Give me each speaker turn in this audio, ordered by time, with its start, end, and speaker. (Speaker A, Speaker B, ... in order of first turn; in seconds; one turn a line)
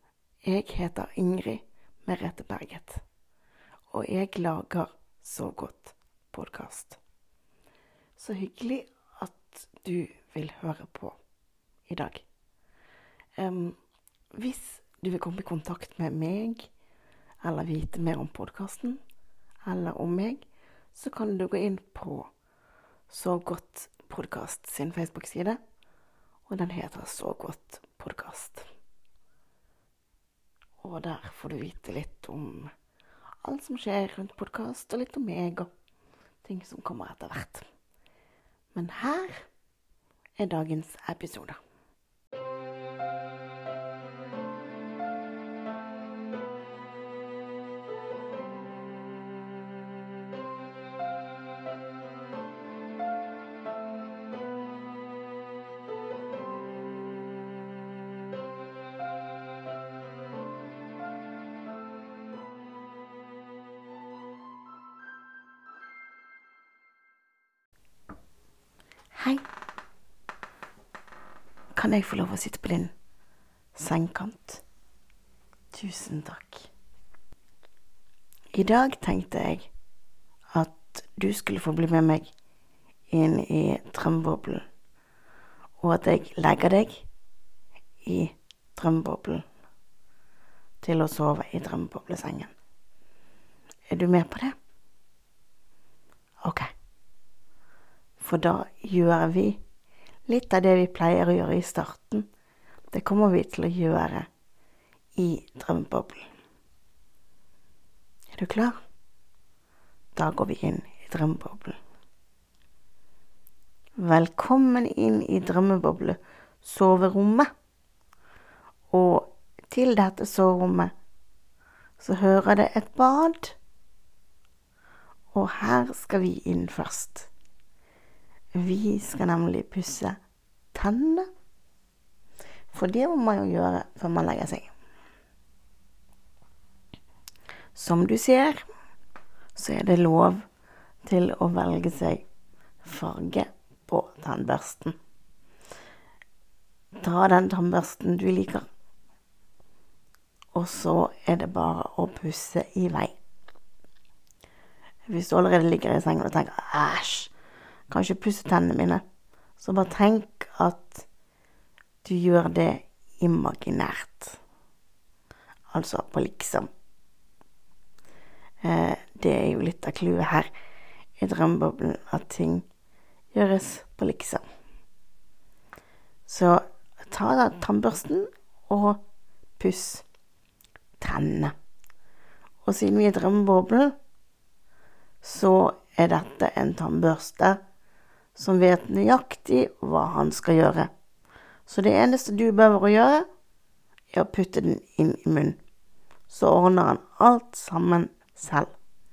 Speaker A: 0.4-3.0
Speaker A: 3.9-7.0
Speaker A: 8.2-11.2
Speaker A: 11.9-12.3
Speaker A: 13.4-13.8
Speaker A: 14.3-16.7
Speaker A: 17.4-19.0
Speaker A: 19.6-22.3
Speaker A: 23.1-25.6
Speaker A: 26.5-28.7
Speaker A: 30.8-32.7
Speaker A: 33.4-35.7
Speaker A: 36.4-37.7
Speaker A: 38.7-39.5
Speaker A: 40.4-41.6
Speaker A: 69.1-69.4
Speaker A: 71.7-72.9
Speaker A: 73.7-74.6
Speaker A: 75.7-76.7
Speaker A: 78.5-79.7
Speaker A: 80.5-82.3
Speaker A: 83.1-84.6
Speaker A: 85.8-87.1
Speaker A: 88.0-89.5
Speaker A: 90.8-92.5
Speaker A: 93.9-94.6
Speaker A: 96.4-96.7
Speaker A: 98.2-99.6
Speaker A: 100.3-102.3
Speaker A: 102.9-104.3
Speaker A: 105.2-106.3
Speaker A: 108.3-108.8
Speaker A: 110.2-111.8
Speaker A: 114.0-117.5
Speaker A: 118.9-120.9
Speaker A: 122.0-123.6
Speaker A: 125.3-127.3
Speaker A: 128.5-130.2
Speaker A: 130.7-131.3
Speaker A: 132.7-134.7
Speaker A: 137.7-138.7
Speaker A: 139.5-140.4
Speaker A: 141.0-142.2
Speaker A: 142.8-144.9
Speaker A: 147.0-148.7
Speaker A: 150.5-153.2
Speaker A: 155.1-157.3
Speaker A: 157.9-159.0
Speaker A: 159.6-161.1
Speaker A: 162.0-164.4
Speaker A: 165.7-166.7
Speaker A: 168.6-170.5
Speaker A: 171.2-172.7
Speaker A: 173.3-174.4
Speaker A: 176.2-179.1
Speaker A: 179.6-180.1
Speaker A: 181.0-181.5
Speaker A: 182.6-184.0
Speaker A: 185.2-187.6
Speaker A: 188.3-190.9
Speaker A: 191.7-193.3
Speaker A: 194.1-195.6
Speaker A: 196.3-198.7